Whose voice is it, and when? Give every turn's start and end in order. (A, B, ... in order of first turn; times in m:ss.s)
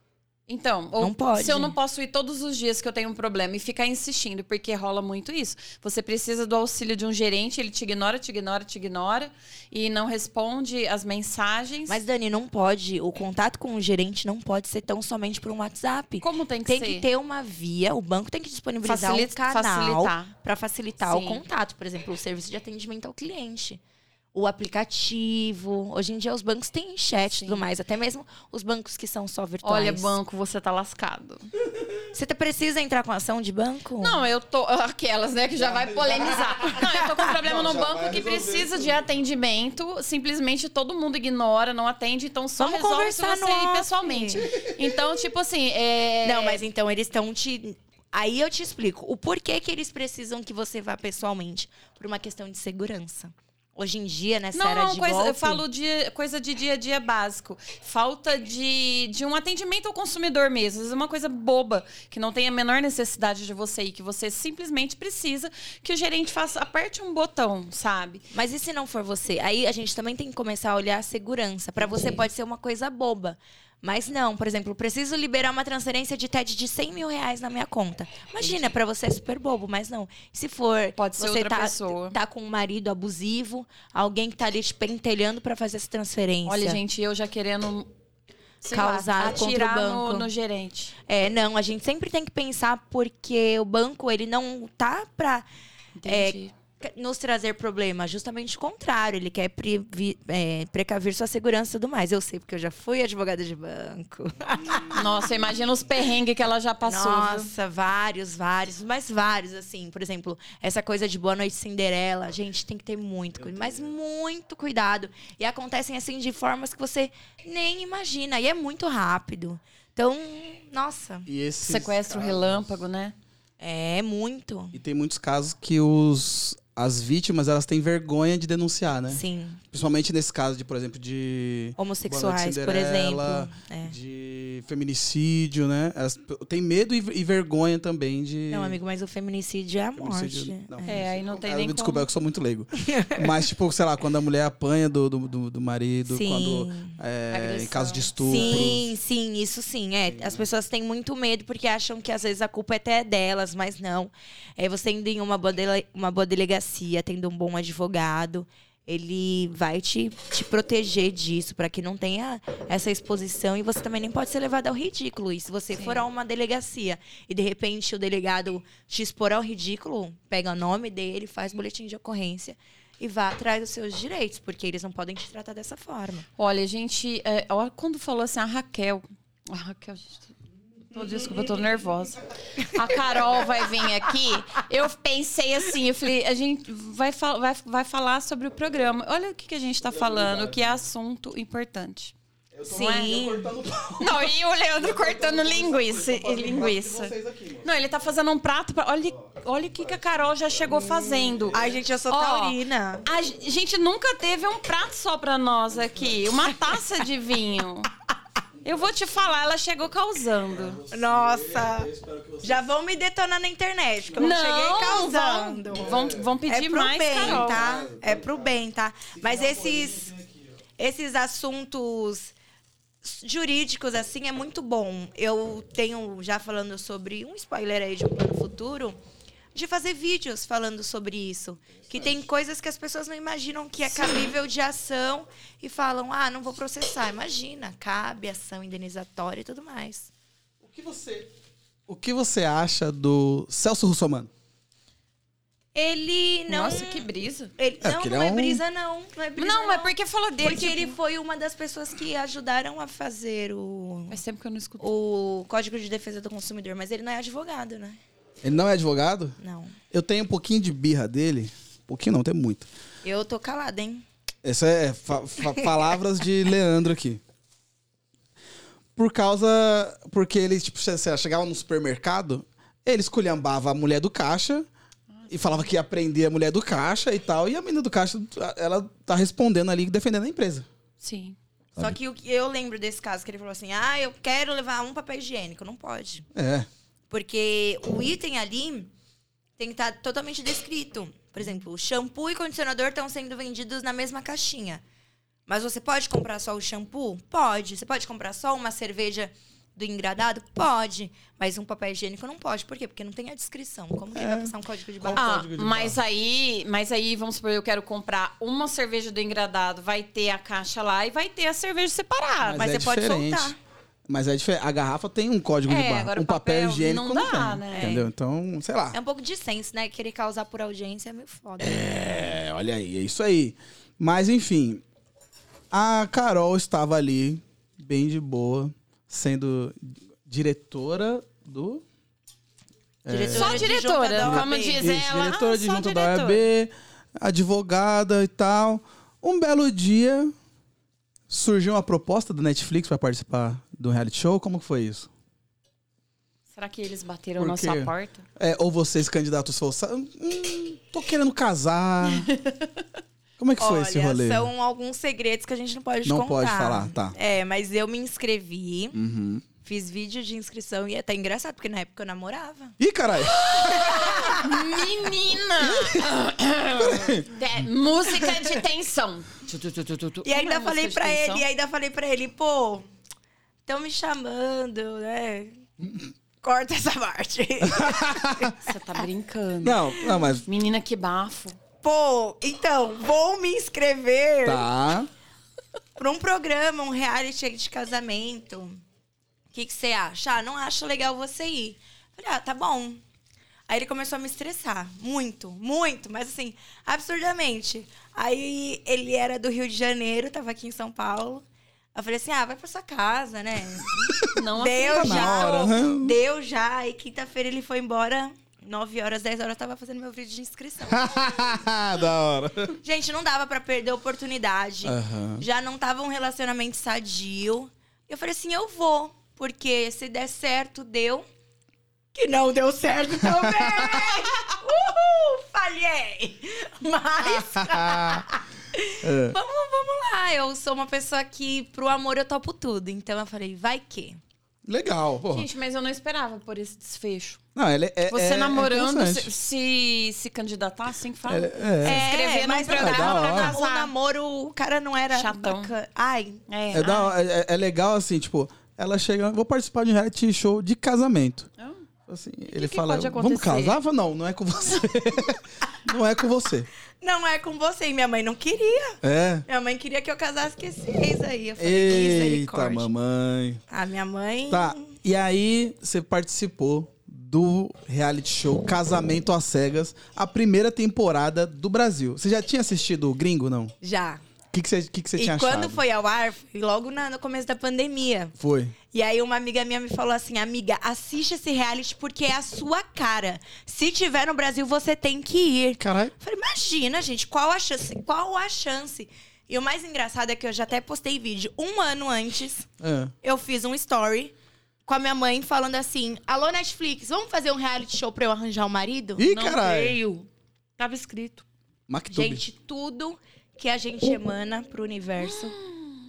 0:00.5-0:12.0 A
0:01.0-0:01.7 B
0:11.9-0:23.8 B
0:16.2-0:17.1 A
0:18.8-0:20.3 A
0:21.0-0:21.4 A
0:24.3-0:30.2 B
0:27.3-0:27.6 A
0:29.6-0:31.5 A
0:32.1-0:34.2 B
0:34.0-0:46.6 A
0:35.6-0:39.0 C
0:42.6-0:44.5 B
0:46.2-0:55.6 B
0:54.5-1:08.2 A
1:08.3-1:26.8 B
1:11.8-1:12.2 A
1:18.4-1:18.7 A
1:21.0-1:22.2 A
1:26.4-1:27.9 A
1:28.6-1:30.9 A
1:28.7-1:30.3 B
1:31.1-1:35.4 B
1:36.0-1:36.5 A
1:36.0-1:45.0 B
1:44.9-1:47.5 A
1:46.8-2:01.3 B
1:53.4-1:53.9 C
2:01.2-2:02.8 C
2:01.6-2:03.1 A
2:03.6-2:04.8 B
2:04.7-2:18.8 C
2:09.1-2:09.6 B
2:11.8-2:13.9 B
2:18.5-2:21.0 B
2:20.0-2:28.8 C
2:20.8-2:22.1 A
2:22.8-2:23.2 B
2:26.1-2:27.0 B
2:27.3-2:28.8 A
2:28.2-2:56.3 B
2:30.1-2:30.4 C
2:45.8-2:46.0 A
2:56.4-3:00.3 A
3:00.9-3:12.1 A
3:09.8-3:10.8 C
3:12.5-3:17.7 C
3:12.7-3:13.5 B
3:12.7-3:13.2 A
3:14.0-3:17.1 A
3:17.6-3:27.9 A
3:19.2-3:21.8 C
3:21.5-3:23.1 B
3:28.6-3:29.0 C
3:28.6-3:30.8 A
3:30.4-3:32.6 C
3:30.9-3:31.9 B
3:32.4-3:35.9 B
3:34.0-3:34.3 C
3:34.2-3:37.6 A
3:35.7-3:36.3 C
3:36.4-3:40.1 B
3:37.1-3:38.6 C
3:39.1-3:40.6 C
3:40.8-3:42.3 B
3:43.0-3:49.0 B
3:49.5-4:00.1 B
3:53.9-3:54.3 A
4:00.6-4:01.3 C
4:01.9-4:04.3 C
4:05.7-4:14.2 B
4:06.5-4:07.5 A
4:07.8-4:08.6 C
4:09.4-4:11.0 A
4:14.1-4:14.9 A
4:14.8-4:18.0 B
4:18.4-4:19.4 C
4:19.4-4:19.8 B
4:19.9-4:22.6 C
4:23.0-4:24.0 B
4:24.4-4:27.2 C
4:29.0-4:34.7 C
4:35.1-4:35.6 A
4:35.3-4:40.7 C
4:41.0-4:41.4 A
4:41.8-4:46.3 B
4:46.3-4:46.7 C
4:47.1-4:48.9 B
4:49.6-4:54.8 B
4:55.5-5:05.3 B
5:04.1-5:06.0 C
5:05.1-5:12.7 A
5:12.4-5:13.5 C
5:12.5-5:13.6 B
5:14.1-5:19.0 C
5:15.7-5:17.9 A
5:17.7-5:18.1 B
5:18.9-5:22.2 B
5:21.6-5:24.8 C
5:25.7-5:31.8 C
5:33.0-5:33.7 C
5:33.1-5:34.9 B
5:33.3-5:36.5 A
5:34.2-5:40.3 C
5:41.3-5:45.1 C
5:46.5-5:48.2 A
5:47.4-5:52.3 C
5:52.0-5:52.8 A
5:53.4-5:54.5 C
5:53.6-5:59.0 B
5:56.0-5:57.2 C
5:58.9-5:59.4 C
5:59.6-6:02.8 B
6:02.8-6:03.8 C
6:03.2-6:11.4 A
6:03.5-6:04.5 B
6:05.7-6:06.0 C
6:06.8-6:07.3 C
6:10.2-6:12.9 B
6:13.7-6:15.6 B
6:16.4-6:18.6 B
6:17.7-6:18.6 C
6:18.6-6:19.8 A
6:19.6-6:20.4 C
6:20.0-6:20.3 B
6:20.4-6:21.6 A
6:21.8-6:24.7 B
6:24.4-6:25.1 C
6:26.0-6:28.8 B
6:29.5-6:33.0 B
6:33.7-6:51.7 B
6:43.8-6:44.3 C
6:44.2-6:45.6 A
6:44.9-6:46.2 C
6:50.9-6:52.8 C
6:52.8-7:01.2 B
6:54.8-6:55.4 C
7:02.1-7:14.2 B
7:03.3-7:04.1 C
7:07.2-7:08.2 C
7:09.0-7:09.4 C
7:14.6-7:15.5 C
7:15.3-7:17.4 A
7:17.6-7:19.3 C
7:18.1-7:23.9 A
7:21.2-7:22.1 C
7:21.8-7:26.4 B
7:22.7-7:23.6 C
7:25.1-7:25.7 A
7:26.5-7:27.1 A
7:26.7-7:31.5 C
7:32.1-7:36.7 C
7:32.5-7:33.8 A
7:37.0-7:42.9 B
7:39.0-7:39.4 C
7:41.6-7:43.6 C
7:43.7-7:44.9 B
7:44.5-7:53.7 C
7:53.8-7:54.2 B
7:54.5-7:55.8 C
7:55.2-7:58.4 B
7:58.4-7:58.7 C
7:58.9-8:12.7 B
8:05.8-8:06.1 C
8:12.8-8:13.1 C
8:13.2-8:14.3 B
8:14.9-8:19.3 B
8:19.2-8:20.0 C
8:19.3-8:20.2 A
8:20.8-8:21.4 A
8:21.9-8:22.4 C
8:22.1-8:25.6 B
8:25.2-8:25.9 A